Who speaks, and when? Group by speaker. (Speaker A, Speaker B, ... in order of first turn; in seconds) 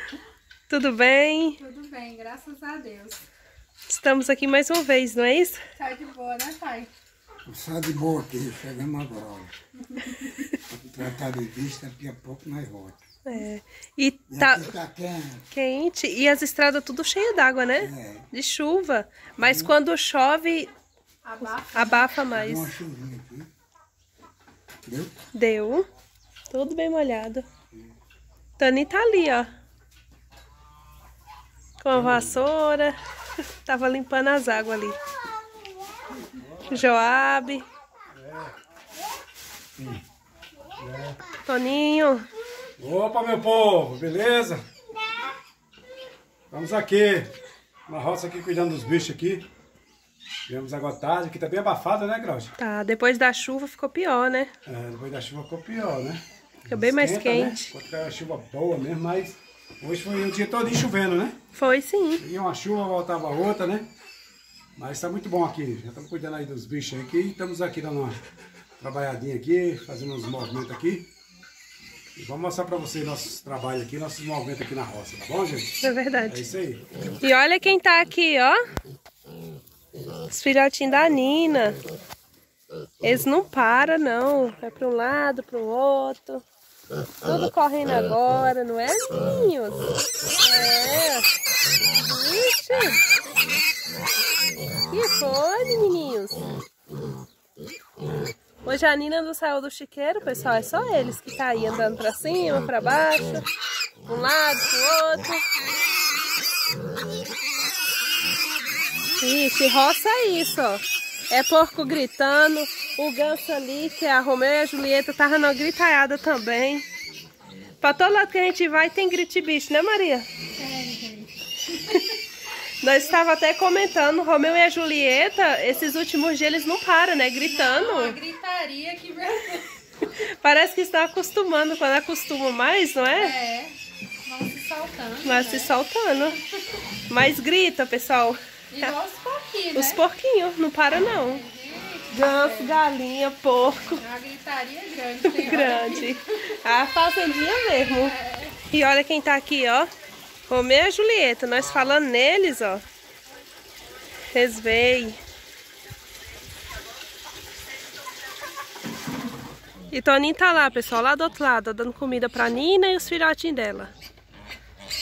Speaker A: 0.7-1.6, 3.9-5.6, 13.2-14.8, 15.5-20.7, 21.4-22.7, 25.3-25.9, 26.5-27.4, 28.6-29.5, 31.8-33.0, 33.6-35.0, 36.7-37.6, 41.4-42.3, 52.6-54.5, 56.7-57.7, 61.5-62.2, 75.8-76.5, 77.2-78.6, 80.2-81.8, 83.0-86.4, 87.2-91.3, 92.0-93.0, 94.8-96.6, 98.6-103.5, 104.0-105.4, 109.2-116.8, 117.8-120.2, 122.8-128.2, 130.1-133.3, 135.2-136.4, 137.1-138.9, 139.7-141.4, 142.1-144.0, 145.2-149.9, 150.5-152.8, 154.3-155.2, 159.9-163.9
Speaker B: 1.6-3.2, 5.7-6.9, 9.9-10.3, 21.2-22.2, 120.5-121.3, 127.4-129.7, 133.1-135.7, 138.7-140.0, 141.3-142.8, 144.0-146.2, 148.0-148.6
Speaker C: 7.5-9.5, 10.7-13.0, 14.3-15.4, 17.8-18.3, 19.4-19.7, 22.3-23.5, 24.8-25.2
Speaker D: 31.9-32.4, 36.4-37.0, 38.1-38.5, 39.8-40.0, 40.8-41.2, 42.8-44.6, 46.5-47.3, 47.9-49.5, 50.5-52.5, 54.6-61.4, 62.2-63.9, 64.8-68.2, 68.8-71.1, 72.2-76.8